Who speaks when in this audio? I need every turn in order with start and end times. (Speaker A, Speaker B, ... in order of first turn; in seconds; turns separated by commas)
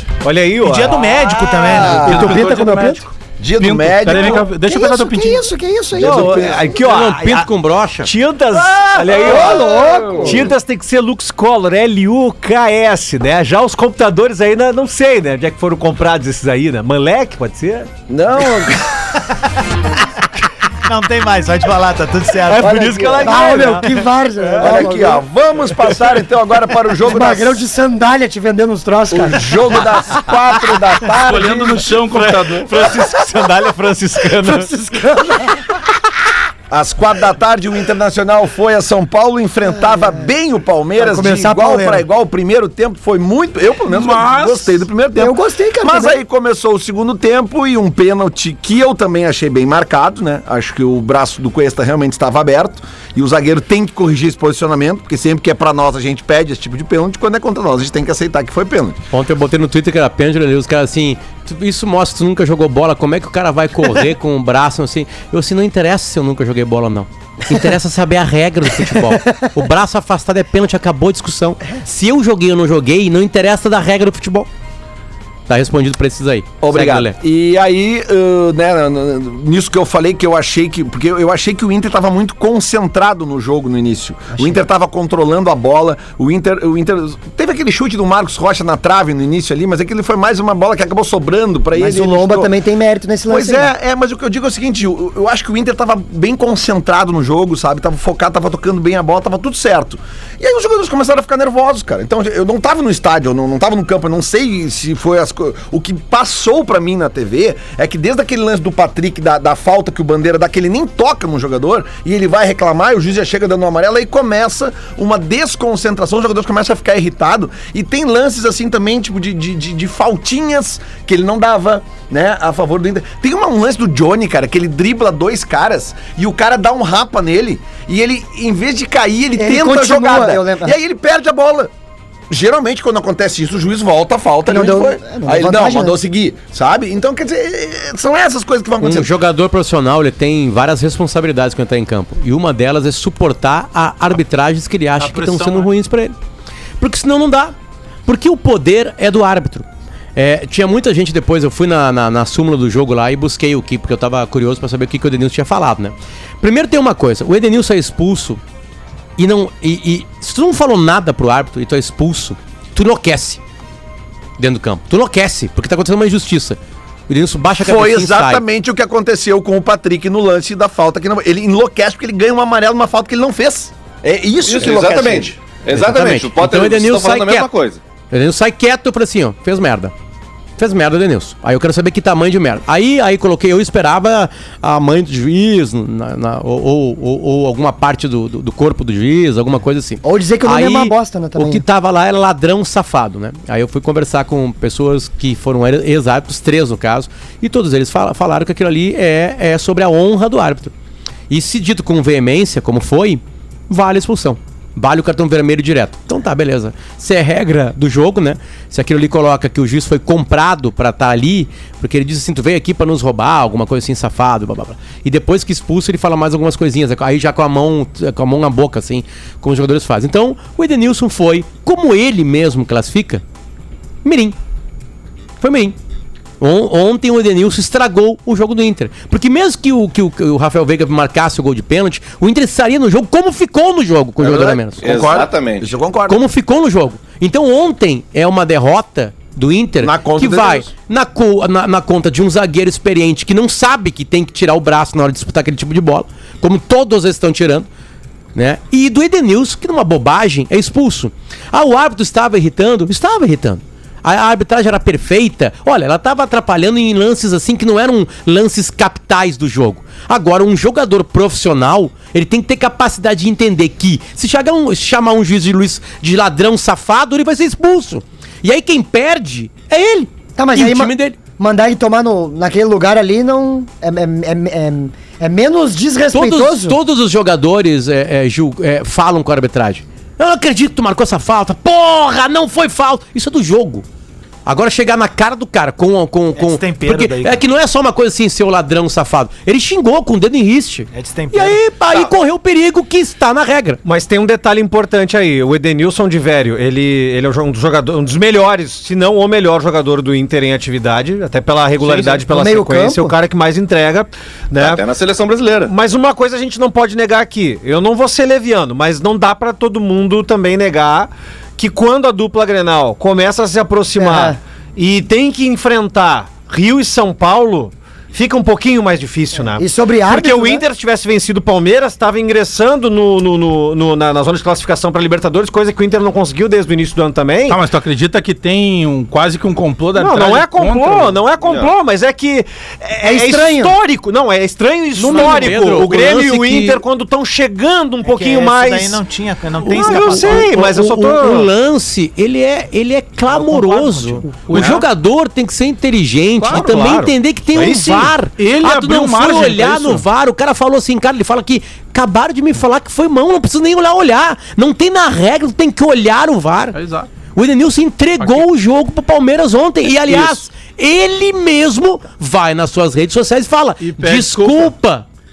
Speaker A: 0.2-1.1, Speaker B: 0.6-2.1, Speaker C: 1.4-2.5, Speaker D: 1.8-3.0, Speaker E: 1.9-5.5, Speaker C: 3.4-4.5, Speaker D: 4.1-6.7, Speaker C: 5.9-6.7, Speaker A: 6.0-7.5, Speaker F: 6.8-8.1, Speaker A: 8.0-17.9, Speaker C: 8.8-10.5, Speaker D: 9.1-10.4, Speaker C: 18.1-19.1, Speaker B: 20.8-23.9, Speaker A: 22.5-23.7, Speaker C: 22.5-23.6, Speaker D: 23.2-25.2, Speaker A: 24.4-24.9, Speaker C: 24.6-27.6, Speaker D: 27.0-29.7, Speaker C: 29.1-31.9, Speaker E: 31.1-32.7, Speaker A: 31.9-34.7, Speaker D: 34.4-35.6, Speaker C: 36.7-59.0, Speaker D: 39.8-40.2, Speaker D: 41.0-42.0, Speaker E: 43.9-44.8, Speaker D: 45.1-46.2, Speaker F: 59.1-74.5, Speaker F: 75.5-77.1, Speaker C: 76.6-92.5, Speaker D: 91.7-93.7, Speaker C: 93.3-131.7, Speaker D: 129.4-130.7, Speaker C: 132.3-139.1, Speaker D: 134.4-136.0, Speaker F: 138.8-146.1, Speaker E: 145.0-145.7, Speaker F: 146.8-147.5, Speaker F: 148.1-158.4, Speaker F: 159.2-163.4, Speaker F: 164.4-166.6, Speaker F: 167.1-168.4, Speaker C: 167.6-175.3, Speaker G: 174.5-177.8, Speaker F: 175.7-177.5, Speaker F: 178.1-179.9, Speaker F: 180.6-200.7, Speaker D: 190.0-191.6, Speaker F: 201.3-223.2, Speaker F: 224.0-224.3, Speaker F: 225.4-225.8, Speaker F: 226.4-234.8, Speaker C: 234.2-236.2, Speaker G: 234.8-235.7, Speaker F: 236.1-247.7, Speaker C: 239.8-240.7, Speaker F: 248.3-271.2, Speaker D: 270.4-276.8, Speaker F: 276.1-283.8, Speaker F: 284.4-293.8, Speaker B: 286.4-287.4, Speaker B: 290.9-291.6, Speaker A: 293.8-304.8, Speaker D: 302.2-303.1, Speaker G: 304.6-305.7, Speaker A: 305.6-327.6, Speaker D: 313.9-314.4, Speaker D: 319.6-320.6, Speaker E: 327.5-331.2, Speaker A: 329.9-339.0, Speaker G: 331.4-331.7, Speaker D: 333.0-333.8, Speaker F: 334.9-336.8, Speaker B: 338.0-340.6, Speaker F: 339.6-356.8, Speaker A: 339.6-341.5, Speaker B: 343.3-344.5, Speaker E: 344.4-344.8, Speaker A: 344.5-344.8, Speaker A: 346.4-348.1, Speaker E: 348.4-350.0, Speaker E: 356.7-357.1, Speaker F: 357.3-365.0, Speaker E: 360.1-360.4, Speaker E: 363.8-364.7